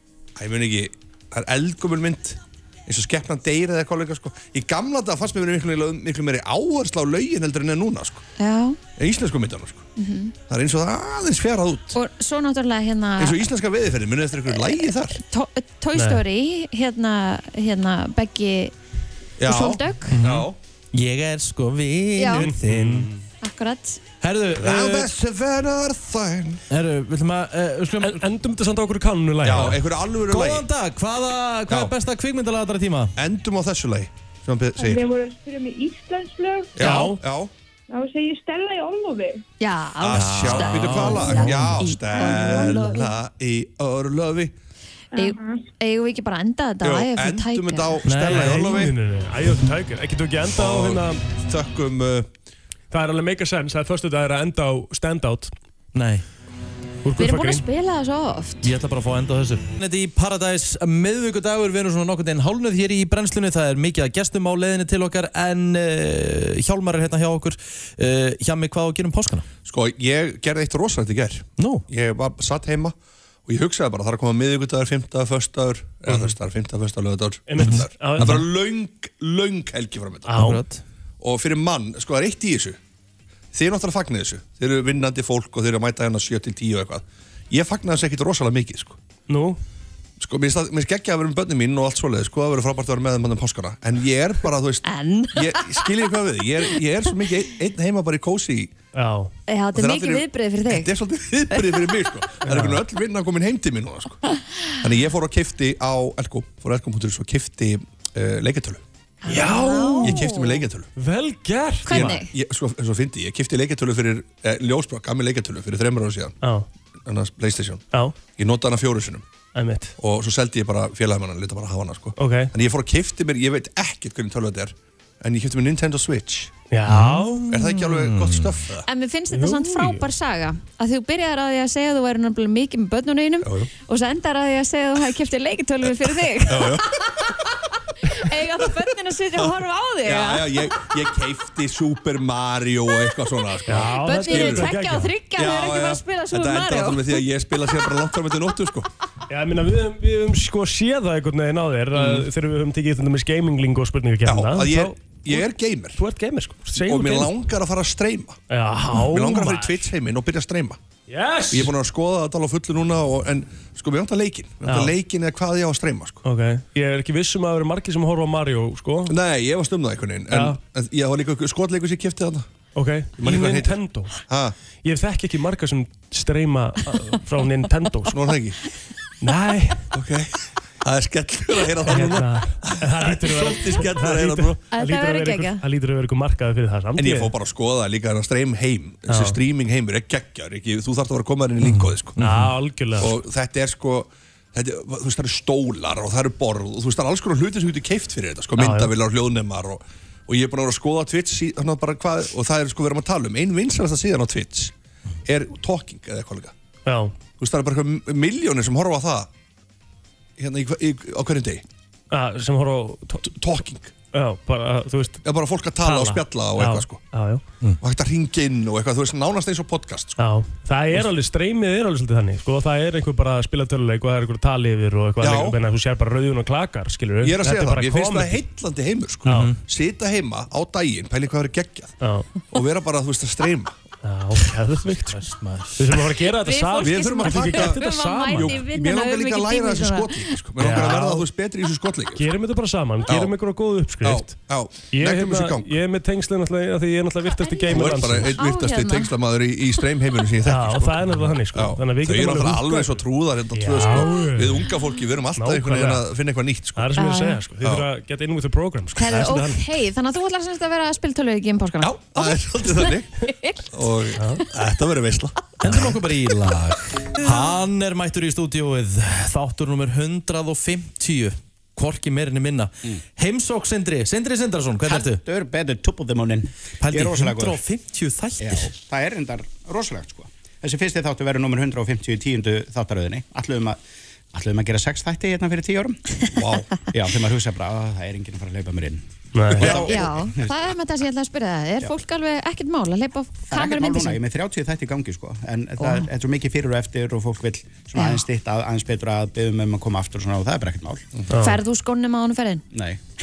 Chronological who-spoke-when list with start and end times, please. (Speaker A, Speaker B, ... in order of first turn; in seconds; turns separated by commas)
Speaker A: 0.4-8.2, Speaker B: 8.4-8.8, Speaker A: 9.0-9.8, Speaker B: 10.0-10.3, Speaker A: 10.5-12.0, Speaker B: 11.9-13.4, Speaker A: 13.2-15.2, Speaker B: 14.5-18.7, Speaker C: 15.9-16.2, Speaker A: 19.4-20.6, Speaker B: 19.4-20.2, Speaker D: 20.1-23.1, Speaker B: 22.2-22.5, Speaker C: 22.3-23.2, Speaker B: 23.4-24.0, Speaker D: 24.2-25.1, Speaker A: 24.6-26.6, Speaker D: 26.7-28.2, Speaker C: 28.0-29.8, Speaker A: 29.4-30.6, Speaker D: 29.5-33.1, Speaker A: 33.2-35.1, Speaker E: 34.8-37.0, Speaker A: 36.8-37.5, Speaker C: 36.8-37.2, Speaker E: 37.9-39.4, Speaker B: 39.6-43.0, Speaker A: 40.0-44.5, Speaker D: 40.1-41.8, Speaker E: 42.1-43.1, Speaker E: 45.1-45.6, Speaker B: 45.1-48.0, Speaker A: 46.8-49.0, Speaker D: 48.0-48.6, Speaker C: 48.2-51.2, Speaker A: 50.6-52.3, Speaker C: 52.9-55.5, Speaker D: 55.9-56.2, Speaker C: 57.0-57.6, Speaker B: 57.2-58.7, Speaker D: 58.6-69.5, Speaker A: 69.7-72.9, Speaker D: 71.6-71.8, Speaker A: 73.5-80.6, Speaker C: 76.1-76.3, Speaker C: 77.5-78.5, Speaker D: 77.6-78.4, Speaker C: 80.3-80.6, Speaker D: 80.3-80.8, Speaker A: 81.2-82.8, Speaker A: 83.5-89.0, Speaker C: 89.3-89.6, Speaker A: 90.2-98.7, Speaker B: 94.8-95.9, Speaker C: 98.9-99.3, Speaker B: 99.5-100.9, Speaker A: 99.7-104.2, Speaker B: 101.5-101.8, Speaker C: 102.4-102.8, Speaker A: 104.8-108.8, Speaker B: 109.2-110.3, Speaker C: 109.3-110.3, Speaker A: 110.0-110.9, Speaker C: 111.0-112.2, Speaker B: 111.9-112.3, Speaker A: 111.9-116.4, Speaker A: 117.0-119.2, Speaker C: 119.5-120.0, Speaker A: 120.0-126.5, Speaker C: 122.2-122.5, Speaker C: 126.7-127.4, Speaker D: 126.9-128.6, Speaker A: 127.5-128.9, Speaker B: 128.9-137.3, Speaker C: 129.3-130.1, Speaker A: 133.4-133.7, Speaker A: 136.4-137.3, Speaker B: 138.0-140.8, Speaker A: 140.0-144.8, Speaker C: 143.7-145.1, Speaker B: 144.0-147.2, Speaker A: 145.3-148.9, Speaker C: 149.3-157.3, Speaker A: 151.9-152.3, Speaker A: 154.2-156.0, Speaker A: 156.8-158.4, Speaker C: 158.5-159.8, Speaker A: 159.0-160.8, Speaker C: 161.1-161.7, Speaker A: 161.5-166.2, Speaker C: 164.7-164.9, Speaker C: 166.2-169.2, Speaker A: 169.1-172.5, Speaker C: 170.3-170.6, Speaker C: 172.8-174.2, Speaker A: 173.2-174.6, Speaker C: 174.8-178.2, Speaker A: 178.1-178.6, Speaker C: 179.2-179.9, Speaker A: 179.9-184.6, Speaker C: 181.9-187.3, Speaker B: 184.7-185.6, Speaker A: 187.0-192.2, Speaker C: 189.1-189.4, Speaker D: 191.6-192.5, Speaker C: 192.2-193.1, Speaker A: 193.0-204.7, Speaker C: 198.6-198.9, Speaker A: 205.3-206.5, Speaker C: 206.9-207.1, Speaker A: 207.4-209.3, Speaker A: 210.4-211.6, Speaker C: 212.1-213.3, Speaker A: 213.2-213.9, Speaker C: 214.1-215.2, Speaker A: 215.2-217.0, Speaker C: 215.8-217.4, Speaker A: 217.8-220.2, Speaker C: 220.2-228.4, Speaker A: 225.2-225.6, Speaker A: 227.2-231.9, Speaker C: 229.3-229.5, Speaker D: 229.3-229.6, Speaker C: 232.0-232.3, Speaker A: 232.5-233.7, Speaker C: 234.0-235.2, Speaker D: 235.1-236.0, Speaker C: 235.8-238.6, Speaker B: 236.4-240.4, Speaker A: 236.8-242.3, Speaker C: 240.6-241.3, Speaker C: 242.2-248.4, Speaker A: 243.1-243.3, Speaker A: 244.0-245.8, Speaker B: 247.4-249.1, Speaker A: 247.7-257.0, Speaker C: 250.5-254.7, Speaker C: 255.4-256.0, Speaker C: 256.8-259.7, Speaker B: 257.0-257.4, Speaker A: 257.6-257.9, Speaker B: 259.0-263.6, Speaker A: 261.8-263.1, Speaker A: 263.7-265.9, Speaker C: 264.2-264.4, Speaker D: 265.6-275.2, Speaker F: 274.8-277.6, Speaker D: 276.8-278.7, Speaker F: 278.4-283.8, Speaker F: 284.3-286.0, Speaker A: 286.3-286.9, Speaker F: 286.9-290.6, Speaker C: 289.4-289.7, Speaker A: 289.6-290.1, Speaker B: 289.6-294.2, Speaker F: 293.5-301.1, Speaker B: 295.8-296.1, Speaker C: 301.3-301.6, Speaker B: 301.4-302.6, Speaker F: 302.7-303.0